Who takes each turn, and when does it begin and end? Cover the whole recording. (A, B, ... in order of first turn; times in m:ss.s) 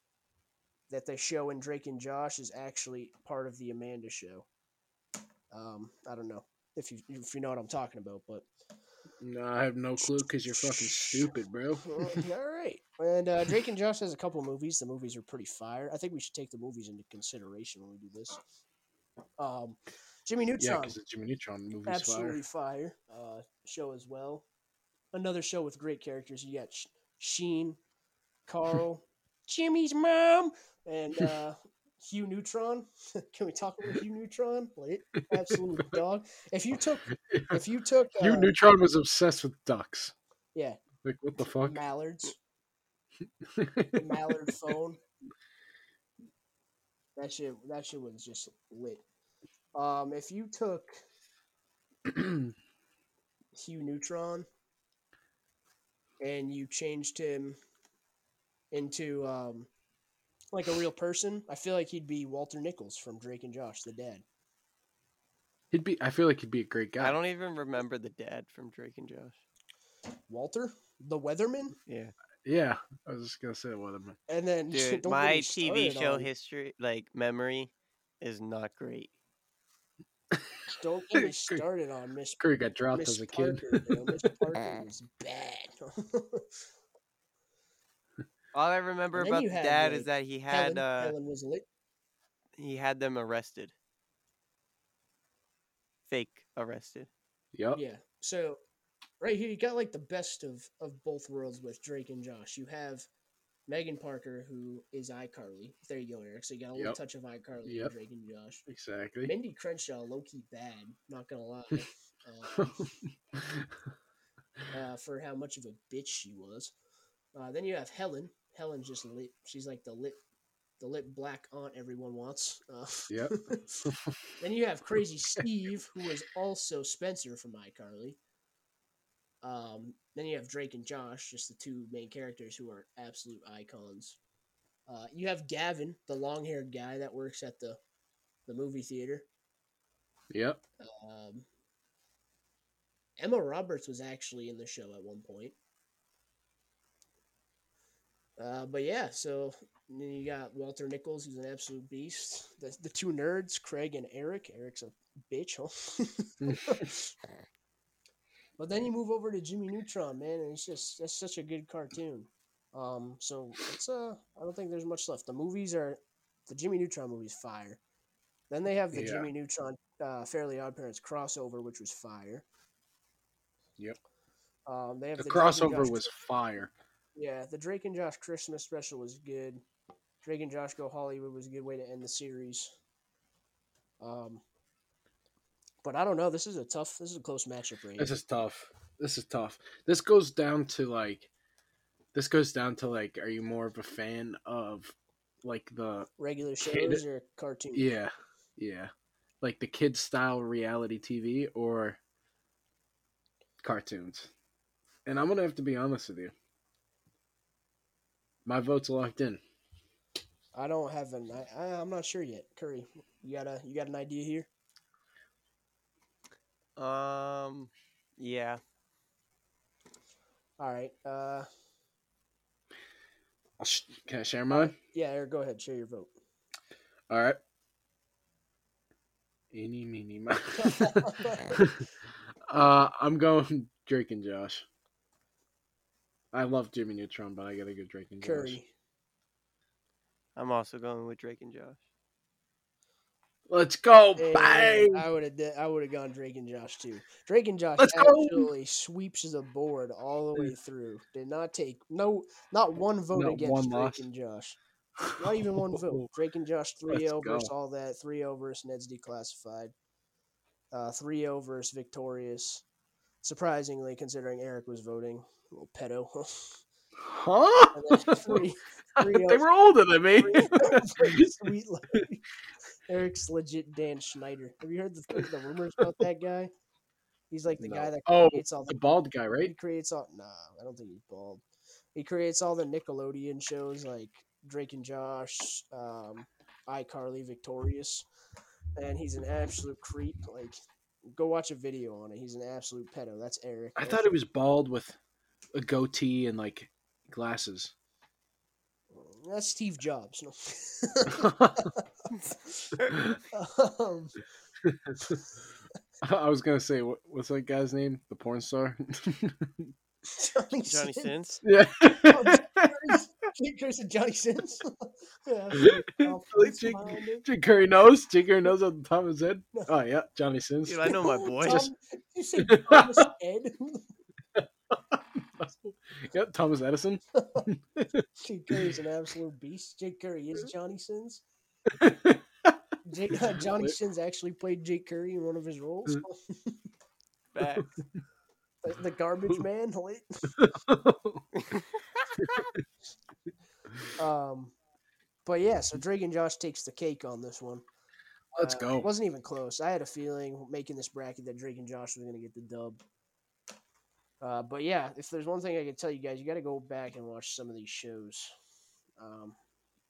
0:00.9-0:04.5 A
0:05.5-0:08.5 A
0:09.2-0:12.3 B
0:10.0-0:18.4 A
0:19.4-0:21.0 A
0:20.6-0:22.4 B
0:21.9-0:24.4 A
0:25.1-0:27.8 A
0:28.5-0:38.5 A
0:35.3-0:36.0 B
0:37.2-0:37.6 B
0:38.2-0:40.1 B
0:40.5-0:40.8 A
0:41.0-0:41.8 B
0:41.6-0:42.4 A
0:43.4-0:44.2 B
0:43.9-0:45.0 A
0:47.2-0:49.0 A
0:49.7-0:51.0 A
0:52.1-0:52.5 B
0:53.6-0:54.5 A
0:56.2-0:57.6 A
0:58.7-0:59.7 A
1:00.5-1:04.2 A
1:05.7-1:07.2 B
1:07.0-1:09.4 C
1:10.3-1:11.8 A
1:11.9-1:12.1 C
1:12.4-1:14.2 B
1:14.3-1:16.3 A
1:14.7-1:19.1 C
1:20.8-1:22.4 A
1:21.2-1:21.6 B
1:22.4-1:24.3 B
1:22.9-1:26.5 A
1:28.5-1:31.1 C
1:29.1-1:31.6 A
1:32.6-1:33.7 C
1:36.1-1:37.1 C
1:37.6-1:37.8 B
1:37.7-1:38.6 A
1:39.2-1:43.1 A
1:43.7-1:48.6 A
1:47.7-1:47.9 B
1:48.7-1:49.3 B
1:49.2-1:52.8 A
1:52.6-1:53.7 B
1:54.7-1:56.7 A
1:57.3-2:00.2 A
2:00.8-2:08.2 A
2:03.1-2:04.2 B
2:09.4-2:14.2 A
2:14.9-2:17.8 A
2:18.5-2:19.3 A
2:20.3-2:20.6 B
2:20.8-2:21.5 A
2:23.2-2:25.6 A
2:28.4-2:37.1 A
2:36.4-2:36.9 B
2:38.6-2:47.8 A
2:48.5-2:52.4 A
2:48.9-2:49.3 B
2:54.7-2:56.1 A
2:55.2-2:56.7 B
2:57.2-2:59.6 A
3:00.2-3:02.7 A
3:04.0-3:04.4 A
3:05.8-3:08.2 A
3:08.0-3:11.3 B
3:12.1-3:16.1 B
3:16.2-3:17.9 A
3:16.6-3:17.0 B
3:17.8-3:22.0 B
3:23.6-3:24.3 B
3:25.1-3:26.3 B
3:28.4-3:29.4 B
3:30.5-3:34.5 A
3:36.8-3:38.6 C
3:40.6-3:41.5 A
3:43.6-3:44.8 B
3:44.5-3:46.1 A
3:47.1-3:47.4 B
3:49.5-3:51.8 B
3:50.6-3:51.6 A
3:52.5-3:54.6 B
3:56.3-3:58.6 B
3:58.2-3:58.7 A
4:00.4-4:01.8 C
4:03.5-4:05.0 B
4:04.2-4:14.6 A
4:07.8-4:08.5 B
4:13.1-4:14.0 B
4:15.0-4:16.1 B
4:15.2-4:19.7 A
4:16.9-4:17.5 B
4:20.7-4:22.6 A
4:23.2-4:26.6 A
4:27.0-4:28.5 B
4:27.7-4:32.2 A
4:29.0-4:32.0 B
4:32.9-4:36.5 A
4:37.3-4:38.9 A
4:37.6-4:39.5 B
4:39.4-4:41.4 A
4:42.0-4:48.1 A
4:48.8-4:50.6 A
4:51.1-4:54.0 A
4:53.8-4:55.0 B
4:55.6-4:57.7 B
4:58.9-5:02.7 A
5:01.1-5:01.7 B
5:03.3-5:04.2 A
5:04.6-5:05.2 B
5:06.0-5:09.7 B
5:10.1-5:11.2 A
5:10.7-5:11.4 C
5:11.4-5:12.9 B
5:12.0-5:17.3 A
5:15.6-5:21.0 B
5:20.7-5:21.7 C
5:20.9-5:23.8 A
5:22.4-5:23.0 B
5:24.4-5:28.7 B
5:27.2-5:27.5 A
5:28.2-5:31.2 A
5:31.7-5:32.6 B
5:32.8-5:36.6 A
5:33.3-5:33.7 B
5:37.3-5:37.7 C
5:37.6-5:38.0 B
5:38.6-5:40.4 A
5:40.4-5:41.3 B
5:41.4-5:42.4 C
5:42.2-5:42.6 B
5:44.0-5:44.5 A
5:45.3-5:47.6 A
5:48.4-5:48.9 B
5:48.4-5:52.8 A
5:54.2-5:58.3 A
5:59.0-5:59.4 A